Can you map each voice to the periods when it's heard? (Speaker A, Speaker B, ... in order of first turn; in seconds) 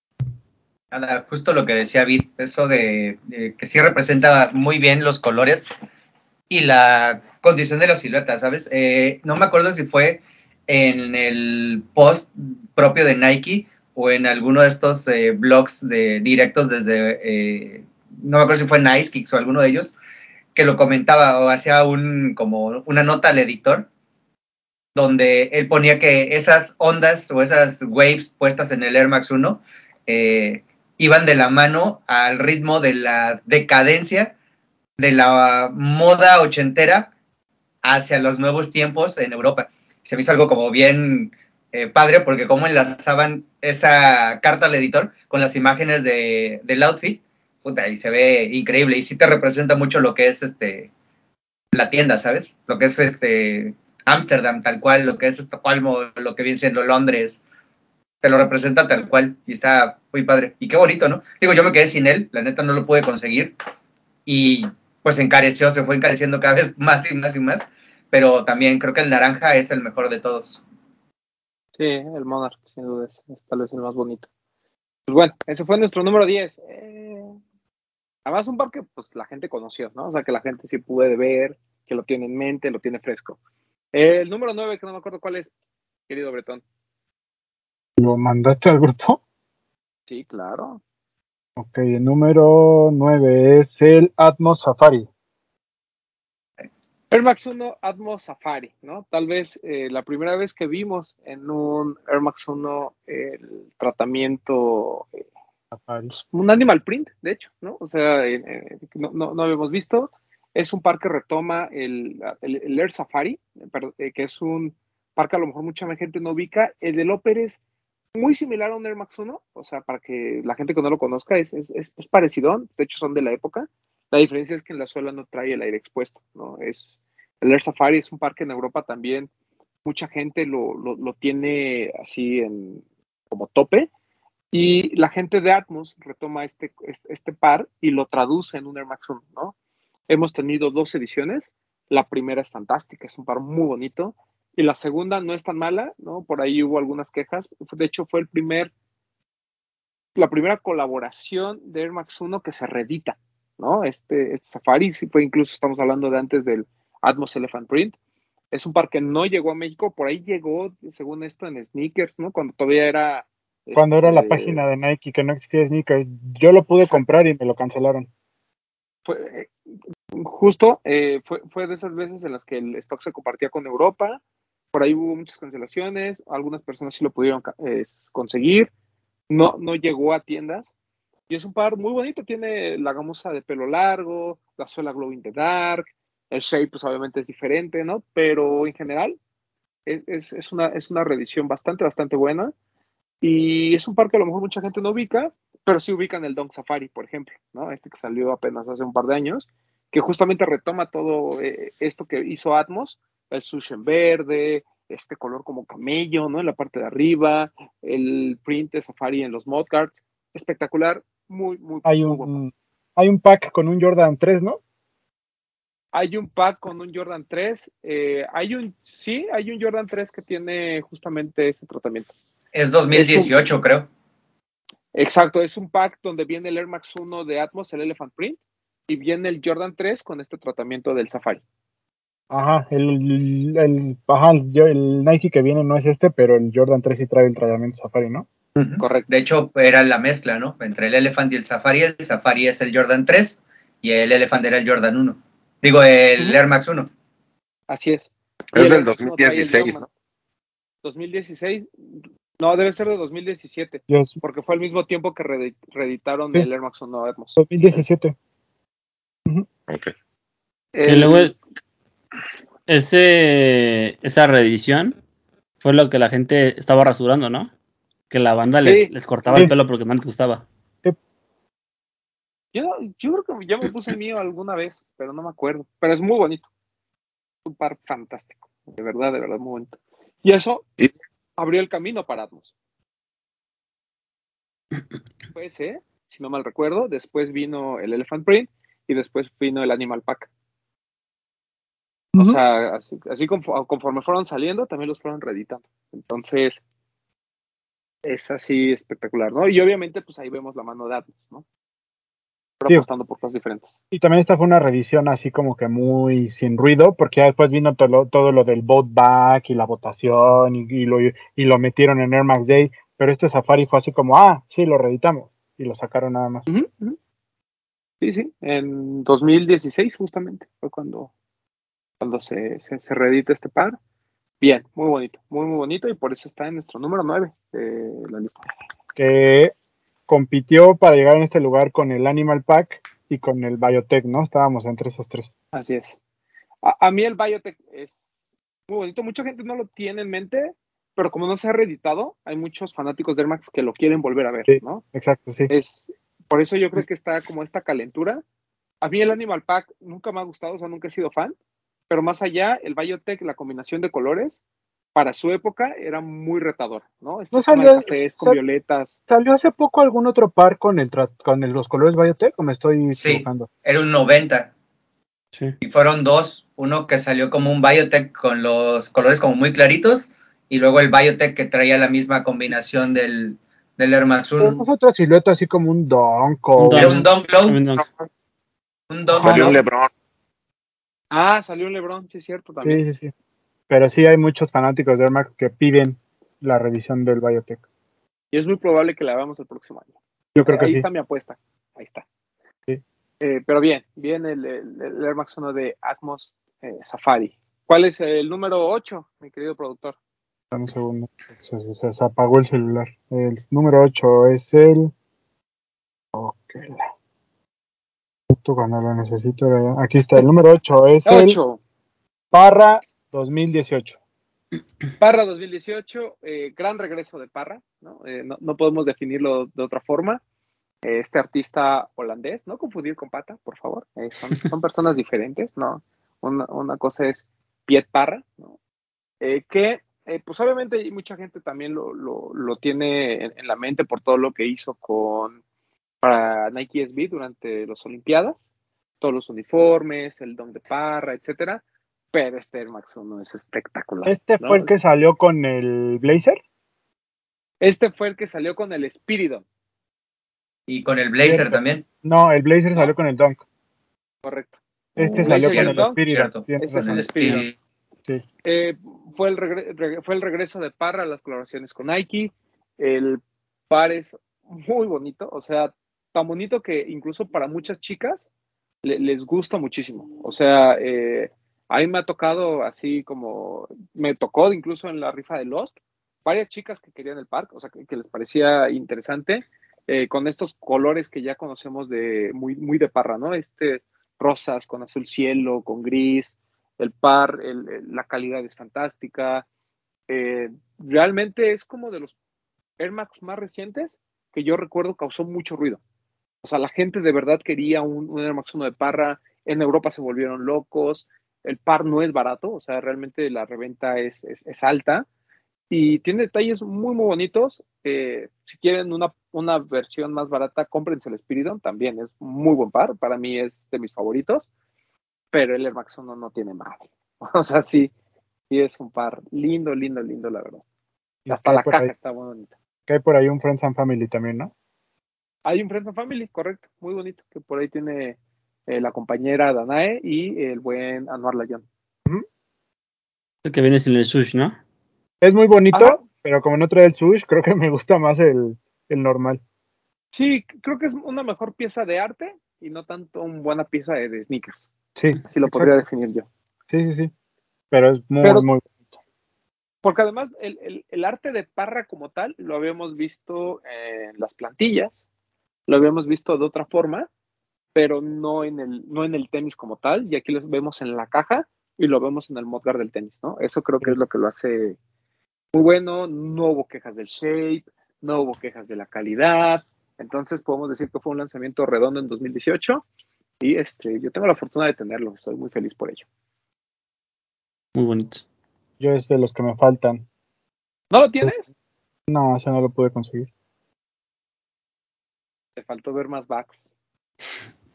Speaker A: 0.9-5.8, 6.5-19.9, 20.5-23.9, 24.9-34.3, 35.0-37.1, 37.8-50.9, 51.7-57.4, 58.2-63.5, 64.2-70.6, 222.5-223.9, 238.6-246.9, 362.9-364.5, 365.6-374.6, 376.7-377.6, 378.9-379.6, 450.7-451.8, 455.0-457.5
Speaker B: 71.8-74.3, 75.1-77.4, 78.2-83.4, 83.9-85.5, 86.1-86.6, 90.1-90.8, 97.1-105.2, 106.1-117.6, 118.1-126.9, 127.4-129.3, 129.8-133.9, 134.5-139.5, 140.1-148.7, 150.2-157.9, 158.5-164.6, 169.1-169.5, 170.1-174.2, 174.7-178.7, 179.3-180.7, 181.3-189.2, 189.8-192.5, 193.2-212.4, 215.9-222.1, 222.9-223.3, 224.9-231.4, 238.8-239.1, 247.7-249.9, 250.8-251.7, 252.4-257.4, 260.7-261.3, 268.6-268.9, 272.5-276.5, 277.4-280.6, 281.4-282.5, 285.3-290.3, 292.1-296.6, 298.0-301.4, 302.6-303.7, 316.5-317.0, 318.0-321.1, 322.0-323.8, 324.4-328.5, 335.5-336.0, 336.6-338.1, 338.7-344.8, 345.5-348.2, 348.8-351.3, 351.9-354.4, 354.9-358.9, 381.1-382.8, 388.3-389.9, 390.4-392.0, 393.2-399.9, 411.1-411.6, 415.0-420.2, 420.8-428.6, 429.2-435.4, 436.0-438.4, 439.0-441.6, 442.1-444.7, 447.6-449.4, 454.2-456.0, 456.6-457.4, 458.4-468.2, 468.8-489.4, 490.1-492.1, 492.8-495.8, 496.4-505.1, 505.7-514.5, 515.3-517.9, 518.5-520.6, 521.3-522.5, 525.5-531.6, 535.7-536.0, 540.1-544.7, 545.2-546.3, 549.8-555.0, 555.7-557.1, 557.7-564.8, 565.5-572.8, 573.4-576.0, 580.9-581.5, 585.6-586.7
Speaker C: 88.0-89.2, 91.6-95.1, 105.7-106.1, 163.7-168.1, 211.8-214.6, 232.3-238.2, 253.9-254.2, 257.4-258.1, 303.9-316.5, 328.9-329.5, 330.1-335.3, 344.5-345.5, 357.3-358.4, 359.1-363.5, 374.4-377.0, 379.2-379.4, 382.6-383.1, 383.7-387.6, 390.3-390.8, 400.5-404.9, 406.1-406.8, 408.3-411.4, 412.3-414.0, 444.1-446.4, 451.2-453.4, 455.0-457.4, 521.2-521.9, 522.9-524.5, 535.2-539.4, 545.0-545.7, 546.7-547.1, 547.7-548.9, 578.8-580.0, 582.1-583.3
Speaker D: 248.5-249.8, 377.8-378.1, 379.2-379.9
Speaker E: 260.8-261.3, 262.7-264.9, 265.6-267.5, 268.1-270.5, 376.6-377.9, 533.4-534.6, 577.7-578.2